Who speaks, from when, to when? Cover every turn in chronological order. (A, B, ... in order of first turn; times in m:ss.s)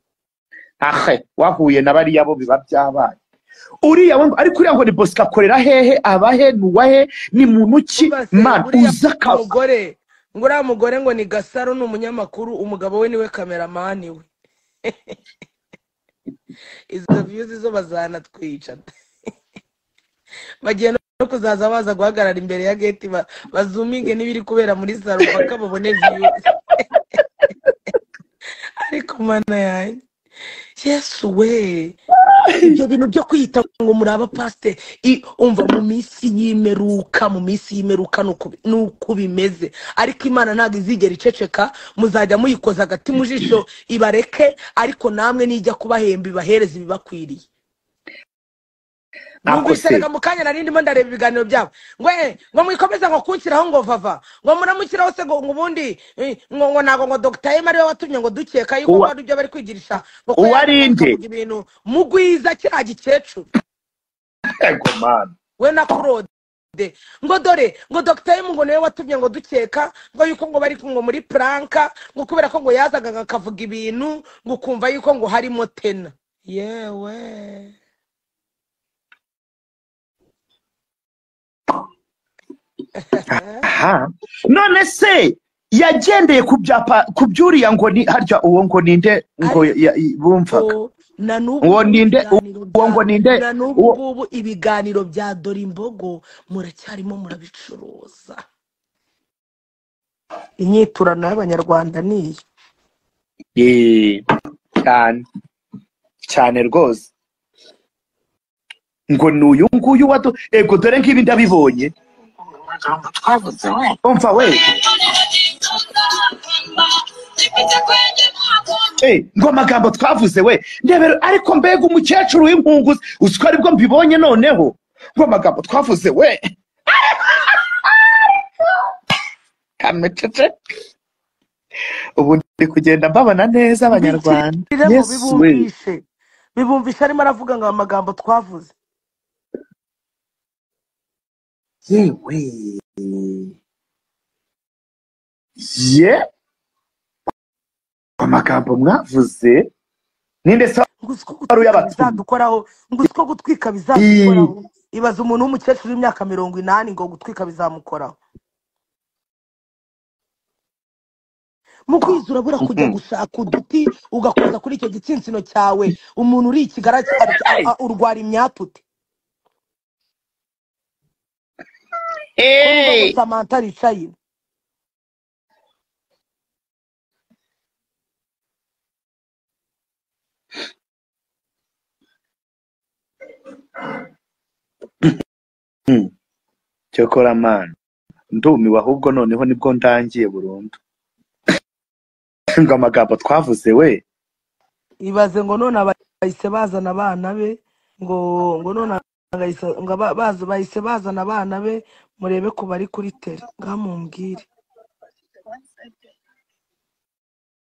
0:00.8-0:03.2 A
0:03.8-0:09.4 A
0:08.0-0:14.3 B
0:16.9-0:18.8 B
0:20.6-0:26.8 B
0:28.8-0:30.0 B
0:30.8-0:32.0 B
0:32.3-0:32.8 A
0:32.6-0:47.4 B
0:49.5-0:50.1 A
0:49.5-1:03.5 B
0:58.9-0:59.1 A
1:00.4-1:01.2 A
1:04.6-1:05.4 A
1:05.6-1:17.7 B
1:23.0-1:23.7 B
1:23.3-1:30.7 A
1:29.4-1:29.7 B
1:30.5-1:38.4 B
1:31.6-1:34.0 A
1:40.6-1:42.4 B
1:43.6-1:44.2 A
1:44.8-1:45.2 A
1:46.3-1:47.1 A
1:49.1-1:51.9 A
1:52.6-1:54.0 C
1:54.0-1:54.6 A
1:54.8-1:58.9 C
1:59.0-2:08.4 A
2:09.8-2:10.5 A
2:12.2-2:15.7 A
2:13.9-2:16.0 B
2:16.6-2:18.8 B
2:21.9-2:23.5 A
2:25.6-2:26.2 A
2:28.2-2:29.7 A
2:30.4-2:30.9 A
2:31.0-2:38.2 B
2:31.5-2:32.2 A
2:34.0-2:34.5 A
2:41.9-2:48.8 B
2:42.6-2:43.0 A
2:47.3-2:47.7 A
2:52.4-2:53.2 A
2:52.6-2:54.2 B
3:05.9-3:06.1 A
3:06.9-3:07.8 A
3:08.3-3:10.8 A
3:12.6-3:14.0 A
3:15.0-3:24.5 B